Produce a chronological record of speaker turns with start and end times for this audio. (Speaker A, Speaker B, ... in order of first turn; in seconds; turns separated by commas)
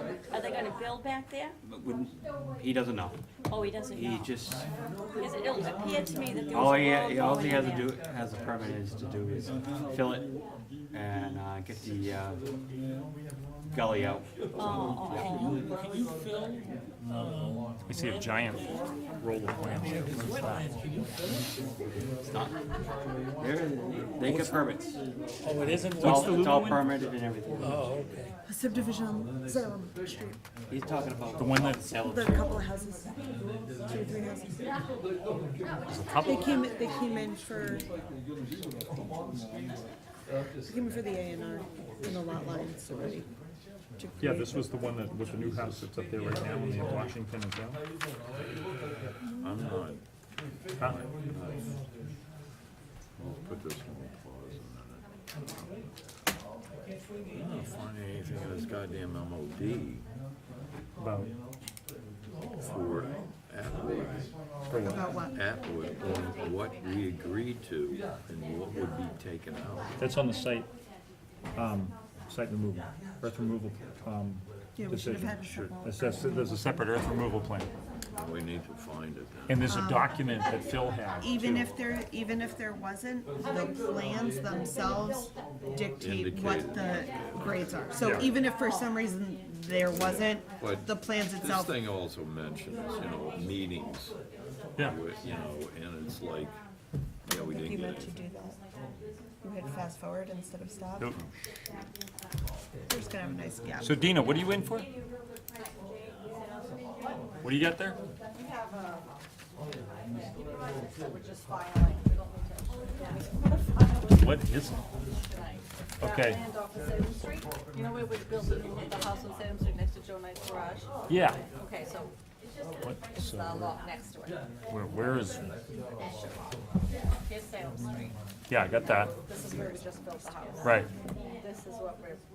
Speaker A: 0.3-1.5, Speaker B: 1.6-3.2, Speaker A: 3.5-4.3, Speaker B: 3.9-4.6, Speaker A: 5.2-7.9, Speaker B: 6.5-10.3, Speaker B: 10.9-12.4, Speaker B: 13.7-14.3, Speaker A: 14.5-15.5, Speaker C: 15.5-17.7, Speaker D: 17.9-18.6, Speaker D: 19.2-20.7, Speaker C: 19.7-21.4, Speaker B: 22.3-22.5, Speaker B: 23.4-24.9, Speaker C: 25.4-26.8, Speaker B: 26.0-27.9, Speaker D: 26.0-26.9, Speaker C: 27.6-28.3, Speaker E: 28.5-30.4, Speaker B: 30.7-32.7, Speaker D: 31.4-31.8, Speaker E: 32.0-33.1, Speaker E: 33.9-34.6, Speaker D: 35.9-36.6, Speaker E: 36.2-37.8, Speaker E: 40.6-43.3, Speaker E: 44.0-44.6, Speaker D: 44.2-47.8, Speaker F: 49.4-50.0, Speaker F: 50.9-51.6, Speaker F: 53.2-55.6, Speaker F: 57.4-60.0, Speaker D: 61.0-61.3, Speaker F: 62.6-64.3, Speaker D: 64.7-65.2, Speaker E: 64.8-65.3, Speaker F: 65.3-69.9, Speaker D: 70.0-70.7, Speaker D: 71.5-77.7, Speaker E: 74.8-76.6, Speaker F: 78.1-79.7, Speaker D: 79.5-81.7, Speaker E: 79.7-80.1, Speaker E: 81.2-91.8, Speaker F: 86.0-87.8, Speaker D: 88.0-88.3, Speaker F: 90.6-94.2, Speaker F: 94.8-96.6, Speaker E: 97.3-98.6, Speaker F: 97.3-98.2, Speaker E: 99.4-101.1, Speaker E: 102.9-104.0, Speaker D: 103.8-104.8, Speaker D: 107.4-108.0, Speaker G: 108.3-109.1, Speaker G: 110.9-114.0, Speaker D: 114.2-114.8, Speaker G: 115.2-120.9, Speaker D: 116.0-116.4, Speaker D: 121.1-121.4, Speaker G: 121.5-122.1, Speaker D: 122.8-123.7, Speaker G: 123.1-124.4, Speaker D: 124.7-125.4, Speaker G: 127.1-128.2, Speaker D: 128.5-129.1, Speaker G: 128.8-132.2, Speaker D: 130.6-130.9